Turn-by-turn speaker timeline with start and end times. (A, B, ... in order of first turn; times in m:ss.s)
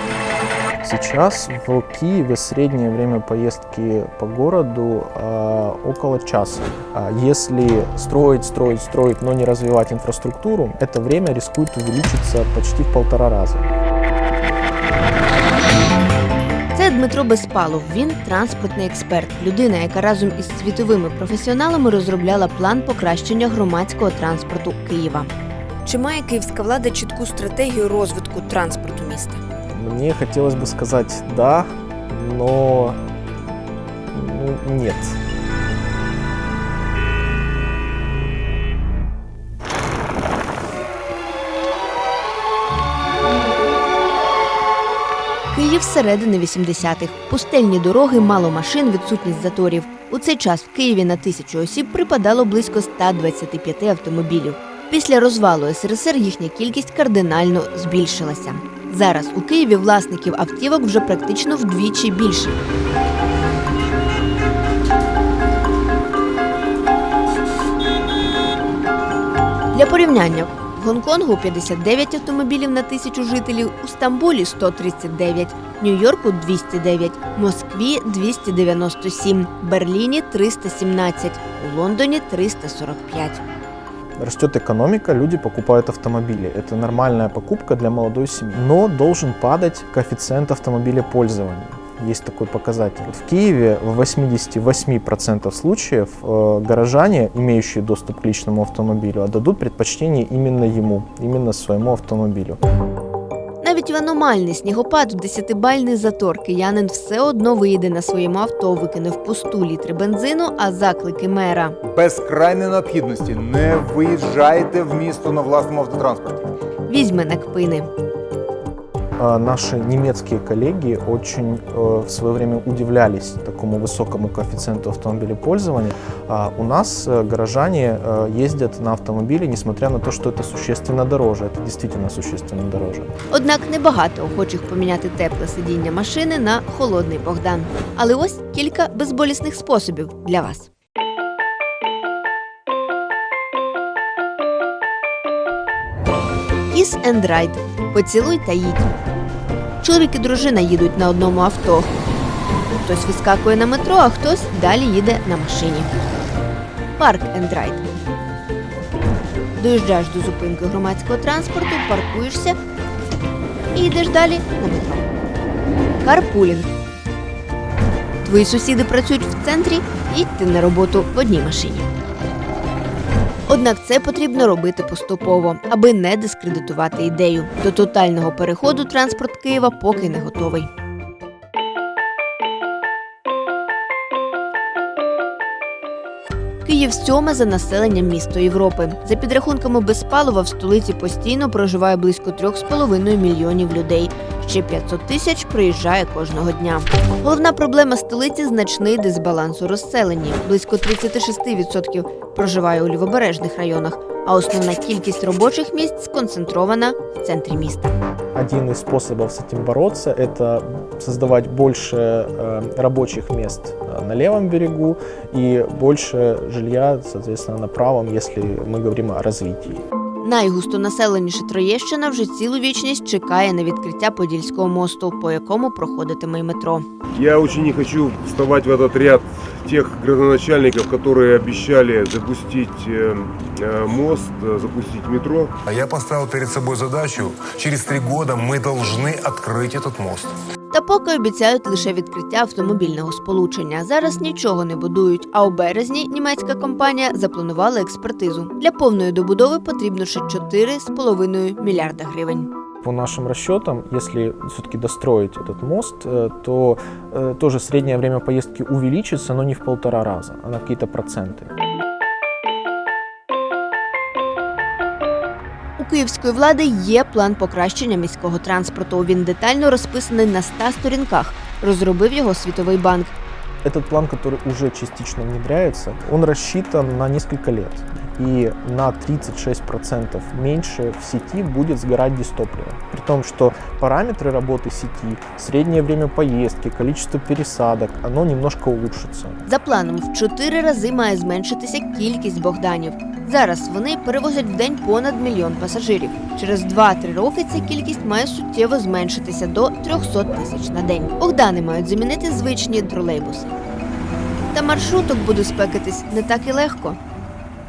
0:00.8-0:13.7 A
0:16.7-0:25.3 B
0:25.8-0:29.4 B
0:29.7-0:33.0 A
0:34.1-0:35.2 A
0:45.5-1:02.6 B
1:09.7-1:23.4 B
1:24.2-1:42.6 A
1:43.6-1:51.8 B
1:51.8-1:56.5 C
1:56.9-1:57.9 B
1:59.2-2:13.1 A
2:13.3-2:20.7 B
2:26.7-2:28.9 B
2:29.8-2:31.9 B
2:32.7-2:35.9 B
2:37.0-2:37.8 B
2:39.6-2:42.6 B
2:43.7-2:45.0 B
2:46.0-2:46.7 B
2:48.2-2:51.9 B
2:53.5-3:00.7 B
3:06.6-3:27.9 B
3:28.3-3:39.8 A
3:40.2-3:46.8 B
3:47.1-3:55.6 D
3:55.6-4:00.3 E
4:00.7-4:12.5 B
4:12.8-4:21.5 A
4:25.8-4:33.1 B
4:33.6-4:49.4 A
4:49.5-5:03.5 B
5:04.5-5:07.0 B